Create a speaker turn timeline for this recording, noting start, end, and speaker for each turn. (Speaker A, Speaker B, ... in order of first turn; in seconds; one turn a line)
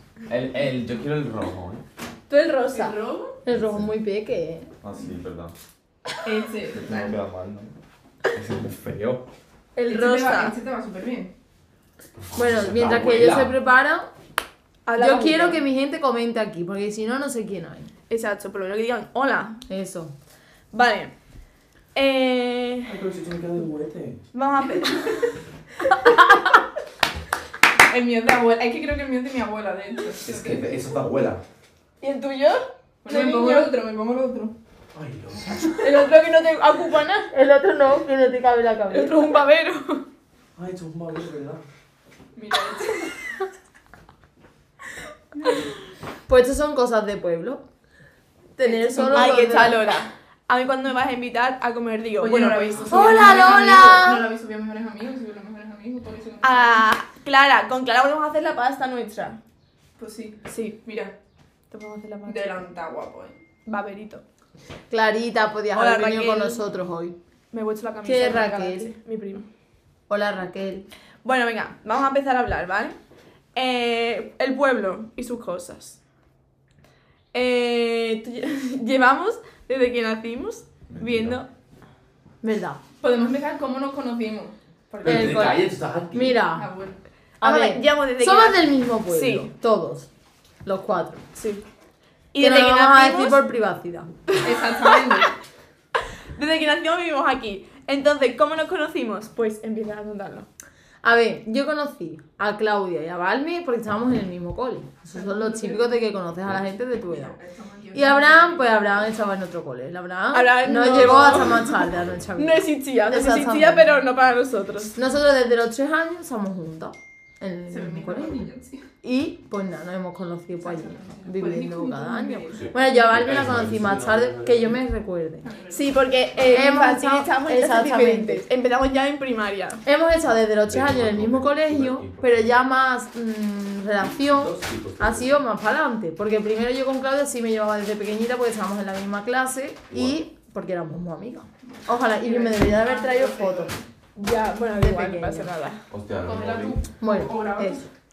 Speaker A: 0.3-1.8
Speaker B: 2.3-3.0
Speaker C: 2.7-3.4
Speaker D: 3.4-4.7
Speaker A: 3.5-3.9
Speaker A: 4.8-5.5
Speaker C: 6.2-7.1
Speaker A: 6.7-7.7
Speaker A: 8.3-9.2
Speaker B: 9.8-10.6
Speaker C: 9.9-11.3
Speaker A: 12.3-13.6
Speaker D: 12.3-14.1
Speaker B: 14.8-15.6
Speaker D: 15.0-17.9
Speaker B: 18.1-19.6
Speaker D: 19.7-20.1
Speaker B: 20.7-21.1
Speaker B: 21.9-22.9
Speaker A: 22.9-24.2
Speaker B: 24.3-25.1
Speaker C: 27.9-30.7
Speaker A: 30.2-31.4
Speaker B: 32.0-33.7
Speaker C: 33.0-34.5
Speaker A: 34.9-35.8
Speaker B: 35.8-37.3
Speaker D: 37.3-39.3
Speaker B: 38.9-40.0
Speaker A: 40.5-41.6
Speaker C: 42.4-43.1
Speaker D: 46.3-47.6
Speaker D: 48.6-49.8
Speaker B: 48.6-54.0
Speaker C: 52.2-56.8
Speaker D: 52.9-54.2
Speaker B: 56.4-59.4
Speaker C: 60.0-61.1
Speaker B: 60.5-60.8
Speaker B: 61.7-62.6
Speaker C: 62.2-63.4
Speaker B: 63.6-64.2
Speaker D: 64.9-67.2
Speaker B: 65.7-66.6
Speaker B: 67.5-69.4
Speaker D: 68.0-68.9
Speaker D: 70.1-70.9
Speaker B: 71.2-73.0
Speaker B: 73.5-76.0
Speaker B: 77.3-81.5
Speaker A: 80.9-81.4
Speaker D: 82.4-82.8
Speaker C: 83.0-85.6
Speaker A: 85.0-86.4
Speaker D: 85.0-85.6
Speaker D: 86.1-86.7
Speaker C: 86.5-87.0
Speaker B: 87.4-89.5
Speaker D: 87.4-90.1
Speaker D: 90.6-91.2
Speaker B: 91.3-91.6
Speaker B: 92.3-93.4
Speaker D: 92.4-94.1
Speaker C: 94.4-95.3
Speaker B: 96.3-100.5
Speaker D: 101.0-107.4
Speaker C: 105.1-105.9
Speaker C: 107.1-109.1
Speaker D: 107.9-113.9
Speaker B: 110.3-111.7
Speaker A: 111.0-112.2
Speaker B: 112.3-114.9
Speaker D: 115.0-118.5
Speaker C: 117.7-118.8
Speaker D: 119.0-125.4
Speaker C: 120.6-122.7
Speaker A: 122.5-124.8
Speaker C: 125.4-125.9
Speaker B: 125.7-129.8
Speaker D: 126.4-128.4
Speaker D: 129.8-143.7
Speaker A: 130.7-132.6
Speaker A: 134.3-135.4
Speaker A: 139.9-140.2
Speaker C: 141.6-143.8
Speaker B: 144.2-145.8
Speaker D: 144.7-145.5
Speaker A: 145.9-146.8
Speaker C: 146.2-147.9
Speaker D: 147.0-147.9